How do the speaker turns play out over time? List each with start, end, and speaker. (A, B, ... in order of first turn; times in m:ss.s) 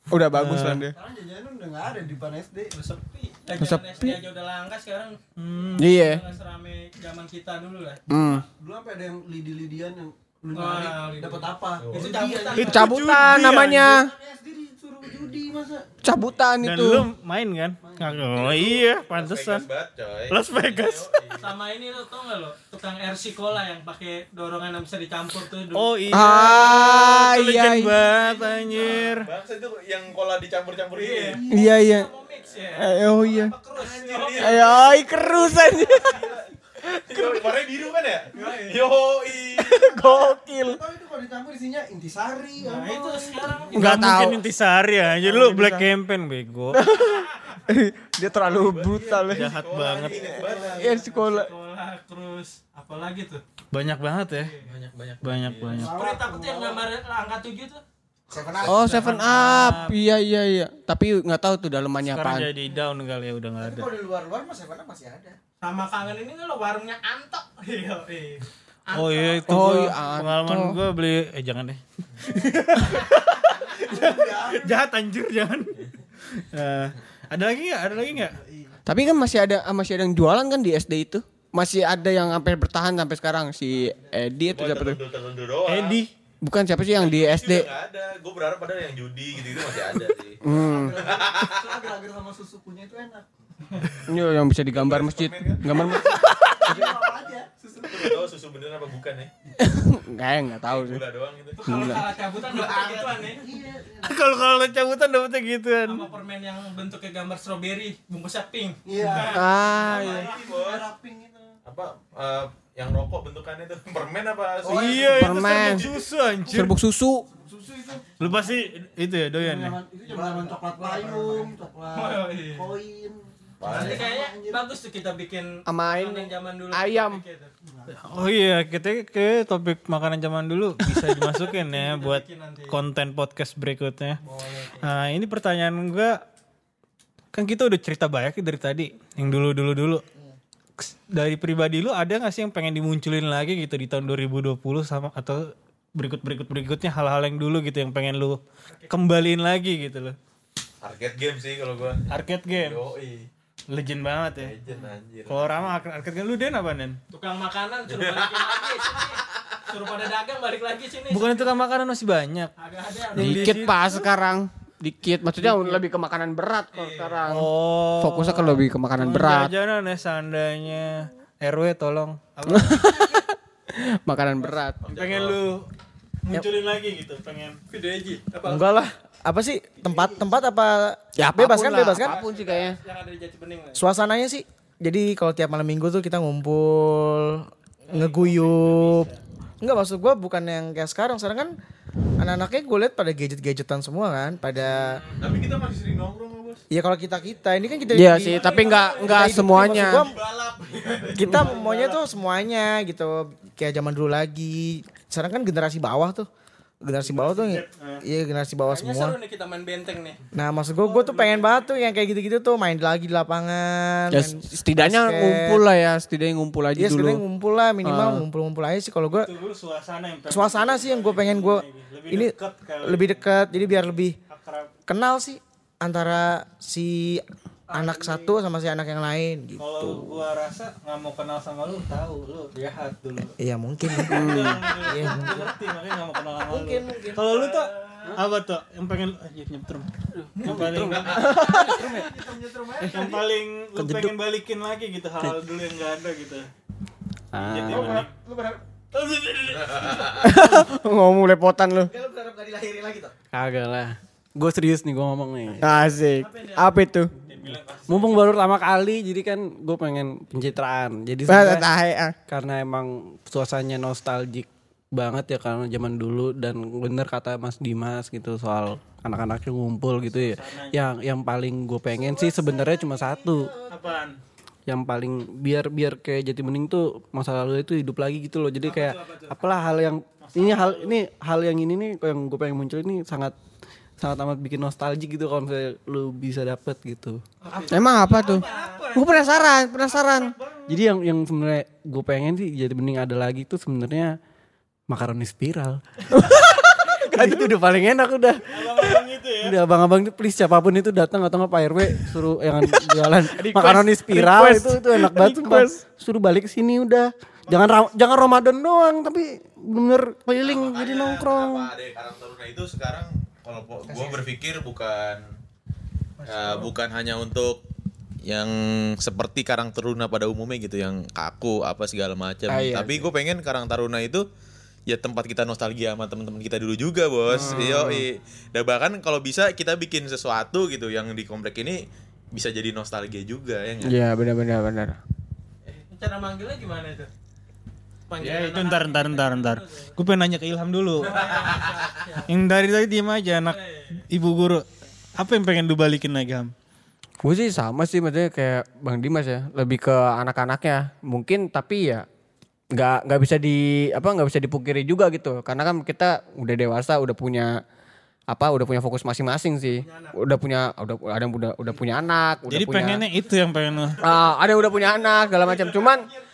0:00.1-0:00.9 A
0:00.3-0:00.8 B
0:00.8-0:02.7 C
0:02.7-0:05.2 D
0:03.6-0:04.2 A
0:05.4-0:05.9 B
0:05.8-0:06.2 A
0:05.8-0:08.0 D
0:08.1-0:08.4 A
0:08.2-0:15.8 C
0:10.5-0:12.9 D
0:11.8-0:12.3 E
0:12.5-0:14.1 A
0:12.6-0:13.9 B
0:16.0-0:17.1 A
0:16.6-0:19.6 B
0:17.8-0:18.3 C
0:18.3-0:21.4 E
0:20.3-0:21.1 B
0:21.4-0:25.9 D
0:25.7-0:29.3 B
0:26.1-0:28.0 A
0:28.2-0:29.0 D
0:28.9-0:31.4 E
0:30.9-0:34.7 D
0:31.3-0:31.7 C
0:31.5-0:32.1 A
0:32.8-0:33.5 A
0:33.7-0:36.4 E
0:34.1-0:35.0 C
0:34.4-0:36.2 A
0:35.9-0:36.2 D
0:36.8-0:37.4 A
0:37.1-0:39.9 E
0:38.3-0:38.9 C
0:39.6-0:40.8 A
0:40.3-0:43.7 C
0:42.6-0:44.0 D
0:43.7-0:44.4 A
0:43.7-0:46.8 B
0:45.3-0:45.8 A
0:46.7-0:49.5 A
0:46.9-0:47.2 D
0:48.3-0:50.9 E
0:49.3-0:50.2 B
0:50.2-0:51.0 C
0:50.2-0:51.5 A
0:50.8-0:53.4 D
0:53.7-0:54.6 B
0:54.6-0:55.9 E
0:55.2-0:56.0 B
0:55.7-0:56.8 C
0:55.8-0:57.8 D
0:58.3-0:59.1 F
0:58.6-0:59.1 E
0:58.6-1:02.5 A
0:58.9-1:00.0 B
1:02.1-1:03.9 B
1:03.6-1:05.4 F
1:05.6-1:09.8 D
1:08.9-1:15.8 B
1:09.5-1:10.8 A
1:13.8-1:14.9 C
1:16.3-1:18.4 B
1:18.4-1:18.8 C
1:18.8-1:25.0 A
1:24.5-1:26.0 E
1:25.7-1:26.1 B
1:26.4-1:27.7 A
1:26.9-1:31.8 E
1:30.4-1:31.0 A
1:30.5-1:33.2 C
1:34.1-1:36.9 A
1:34.7-1:36.9 E
1:35.9-1:38.3 C
1:37.8-1:39.3 E
1:39.6-1:41.0 A
1:40.6-1:42.1 E
1:41.6-1:43.4 D
1:41.7-1:42.0 A
1:42.3-1:44.3 C
1:44.0-1:46.1 B
1:45.8-1:49.4 D
1:48.8-1:51.5 C
1:49.2-1:50.3 A
1:49.7-1:50.9 E
1:51.6-1:55.8 E
1:54.6-1:55.8 C
1:54.7-1:56.7 B
1:55.0-1:55.8 A
1:56.5-1:57.2 A
1:57.3-1:58.6 C
1:58.2-1:59.8 B
1:59.3-2:04.7 C
2:00.9-2:01.1 F
2:01.9-2:02.7 D
2:03.6-2:04.1 E
2:03.7-2:07.5 D
2:05.6-2:07.2 A
2:08.0-2:14.2 B
2:11.3-2:12.8 D
2:14.2-2:14.8 C
2:14.8-2:16.2 B
2:17.3-2:20.0 B
2:20.8-2:25.4 B
2:26.0-2:30.2 B
2:30.8-2:33.3 E
2:32.1-2:32.8 B
2:33.7-2:34.5 B
2:34.4-2:35.7 E
2:35.3-2:37.0 B
2:37.1-2:41.6 D
2:37.9-2:39.6 E
2:41.1-2:42.5 B
2:42.6-2:43.7 D
2:43.1-2:43.9 B
2:43.2-2:49.5 A
2:45.4-2:45.7 B
2:46.7-2:47.2 D
2:47.3-2:53.0 B
2:52.5-2:54.8 A
2:54.8-2:55.5 E
2:54.9-2:55.7 B
2:56.2-2:57.6 B
2:57.7-2:58.7 D
2:58.4-3:02.2 F
2:59.8-3:00.2 C
3:01.2-3:02.8 A
3:02.0-3:03.8 D
3:03.7-3:09.1 F
3:09.6-3:11.6 F
3:12.2-3:15.0 F
3:14.8-3:16.6 E
3:16.7-3:20.2 F
3:17.9-3:20.0 A
3:18.4-3:19.6 B
3:18.7-3:19.0 D
3:19.3-3:21.5 E
3:21.2-3:26.3 F
3:21.6-3:21.9 D
3:26.8-3:29.2 F
3:27.0-3:28.0 B
3:28.7-3:30.2 D
3:30.3-3:35.6 F
3:30.8-3:31.6 B
3:34.1-3:37.2 A
3:36.7-3:39.3 F
3:37.8-3:38.2 A
3:39.1-3:43.2 B
3:40.3-3:44.2 F
3:44.3-3:44.7 B
3:44.9-3:50.2 F
3:47.7-3:48.3 C
3:49.6-3:53.3 B
3:53.4-3:55.5 F
3:54.0-4:01.8 B
3:54.0-3:54.8 A
3:56.5-3:57.2 F
3:57.2-3:58.2 D
3:58.0-3:58.3 C
4:00.1-4:02.1 G
4:00.9-4:01.4 E
4:01.2-4:03.3 C
4:01.2-4:02.0 A
4:02.9-4:06.5 B
4:03.8-4:04.1 A
4:07.3-4:08.1 G
4:07.4-4:08.0 E
4:07.7-4:08.0 B
4:08.9-4:10.3 B
4:09.4-4:10.4 E
4:10.2-4:11.9 A
4:11.9-4:13.1 F
4:13.3-4:15.6 G
4:15.6-4:17.1 A
4:16.2-4:16.8 D
4:17.3-4:18.4 B
4:17.4-4:21.6 G
4:21.3-4:22.1 A
4:22.3-4:33.5 G
4:30.0-4:30.8 B
4:31.9-4:33.7 C
4:33.7-4:34.2 B
4:34.7-4:43.4 G
4:38.6-4:38.9 B
4:38.9-4:39.3 D
4:40.2-4:41.0 B
4:44.0-4:47.2 G
4:47.4-4:48.9 D
4:47.5-4:50.8 B
4:47.7-4:48.4 A
4:48.9-4:50.3 A
4:50.7-4:54.1 G
4:54.9-5:11.7 G
4:58.5-4:59.6 B
5:03.3-5:05.8 A
5:07.5-5:07.9 B
5:10.4-5:15.2 E
5:16.2-5:16.7 D
5:16.3-5:17.6 E
5:18.2-5:24.2 E
5:22.5-5:23.1 A
5:24.9-5:34.0 E
5:27.3-5:28.0 A
5:33.8-5:35.0 A
5:35.9-5:37.1 D
5:38.1-5:39.9 D
5:38.2-5:41.4 B
5:41.0-5:42.3 D
5:41.1-5:41.7 E
5:42.3-5:43.6 B
5:43.5-5:43.9 D
5:44.1-5:44.6 B
5:45.2-5:46.5 B
5:47.2-5:52.0 A
5:52.7-5:57.5 A
5:58.3-6:03.0 A
5:59.8-6:00.2 D
6:02.5-6:04.0 B
6:04.0-6:06.1 A
6:04.3-6:06.0 C